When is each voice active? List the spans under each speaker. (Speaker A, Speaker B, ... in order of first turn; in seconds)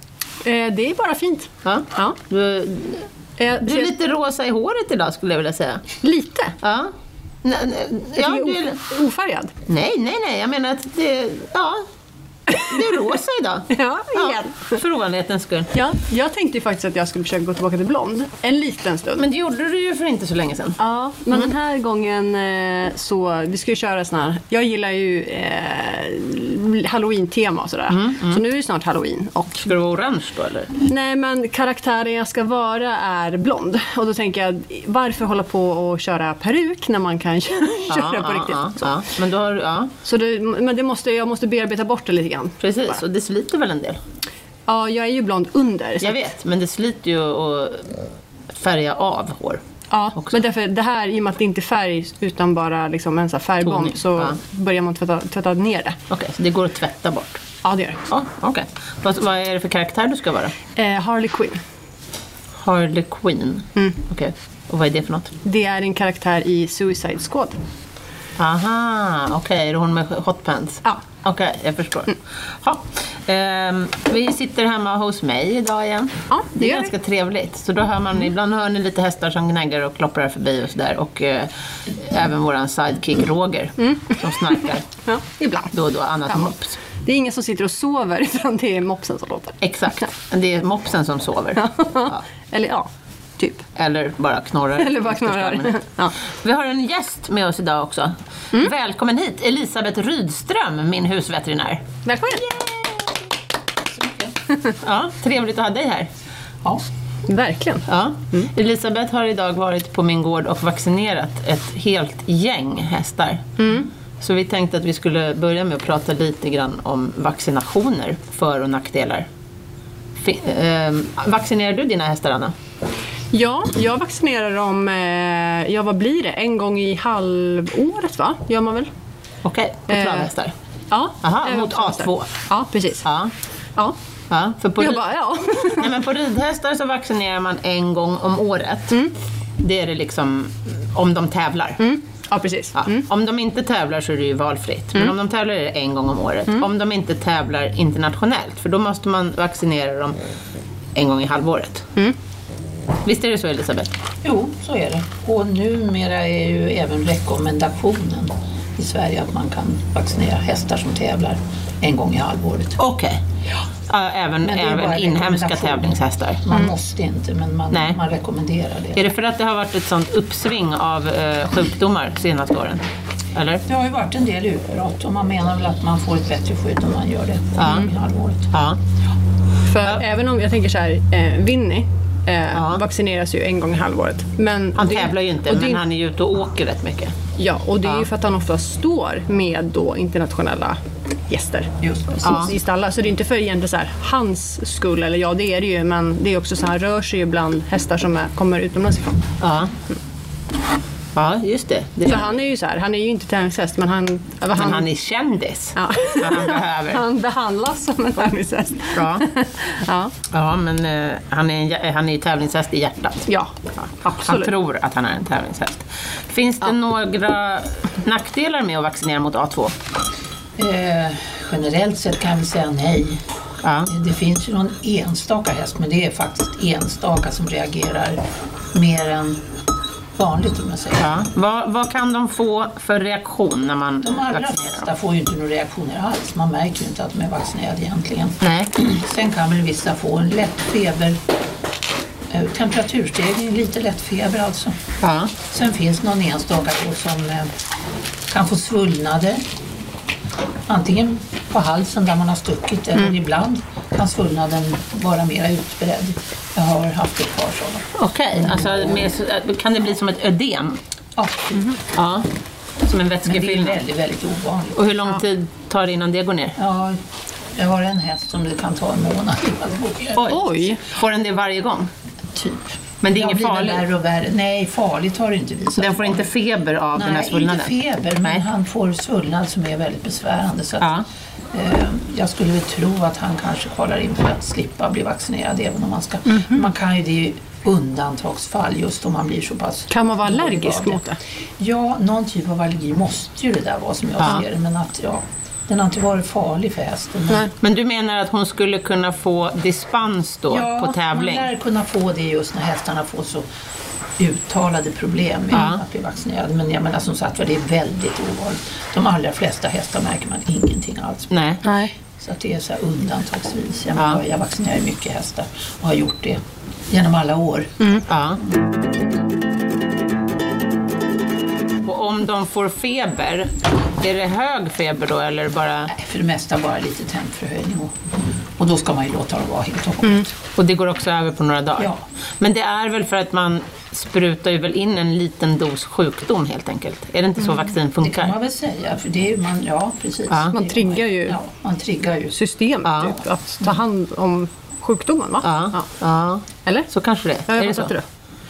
Speaker A: 0.4-2.2, 3.4-3.9, 6.0-6.6, 8.2-9.5, 13.7-14.8, 15.7-19.3, 20.8-29.6, 30.8-39.0, 40.0-42.7, 44.7-46.3, 49.9-56.0, 57.6-58.0, 60.8-61.6, 65.4-67.6, 76.3-76.9, 83.8-84.5, 85.0-85.7, 86.3-89.6, 91.6-93.7, 94.8-96.2, 102.0-102.5, 107.3-108.5, 113.6-113.9, 123.3-128.9, 129.9-130.3, 130.9-133.1, 134.8-135.9, 141.8-143.1, 179.7-185.8, 187.4-199.3, 202.1-204.9, 205.8-210.2, 213.3-213.5, 214.0-214.5, 270.3-270.8, 289.9-291.2, 311.6-311.9, 340.5-341.4, 342.4-345.9, 347.5-348.0
Speaker B: 1.6-3.1, 3.6-5.9, 6.6-6.9, 7.4-8.8, 9.7-11.8, 12.5-15.7, 19.2-20.8, 27.9-28.4, 29.6-30.7, 37.9-39.9, 42.6-44.0, 46.0-49.6, 53.6-54.4, 56.1-57.4, 58.1-60.6, 62.5-65.3, 68.4-84.8, 85.7-86.8, 89.6-92.2, 93.8-101.9, 104.8-106.1, 107.9-113.6, 114.2-119.3, 120.2-122.5, 129.4-130.5, 131.2-132.3, 133.0-133.3, 134.3-135.0, 135.7-139.0, 139.6-141.8, 142.8-150.2, 150.9-151.9, 153.1-153.9, 162.8-163.2, 163.9-166.5, 167.7-168.0, 168.9-173.6, 177.6-177.9, 178.5-178.8, 182.5-182.8, 184.8-187.2, 192.2-192.5, 199.4-199.7, 201.2-202.3, 204.6-207.0, 208.9-209.3, 210.3-213.3, 213.8-219.8, 223.6-223.9, 231.0-234.9, 238.4-238.7, 245.0-245.3, 257.9-260.8, 261.9-262.3, 262.9-263.8, 264.8-266.6, 270.2-271.9, 273.0-273.9, 275.8-278.4, 280.8-281.1, 297.5-301.5, 305.5-305.8, 311.3-311.6, 318.1-318.4, 321.8-325.9, 330.6-338.4, 340.3-340.5, 342.8-343.2, 345.4-347.9
Speaker C: 103.9-104.3, 154.2-162.8, 164.4-169.0, 173.7-178.5, 191.8-192.4, 220.6-223.2, 223.9-228.2, 228.7-229.4, 230.2-231.1, 234.0-241.2, 242.3-244.8, 245.5-247.5, 248.3-249.4, 250.7-259.1, 261.2-261.6, 263.2-264.8, 266.6-267.0, 267.6-270.4, 272.3-276.2, 276.9-280.9, 281.5-291.0, 291.6-297.5, 300.5-303.4, 304.2-311.3, 312.2-317.9, 325.9-328.0, 328.6-330.4, 331.8-332.1, 338.0-342.4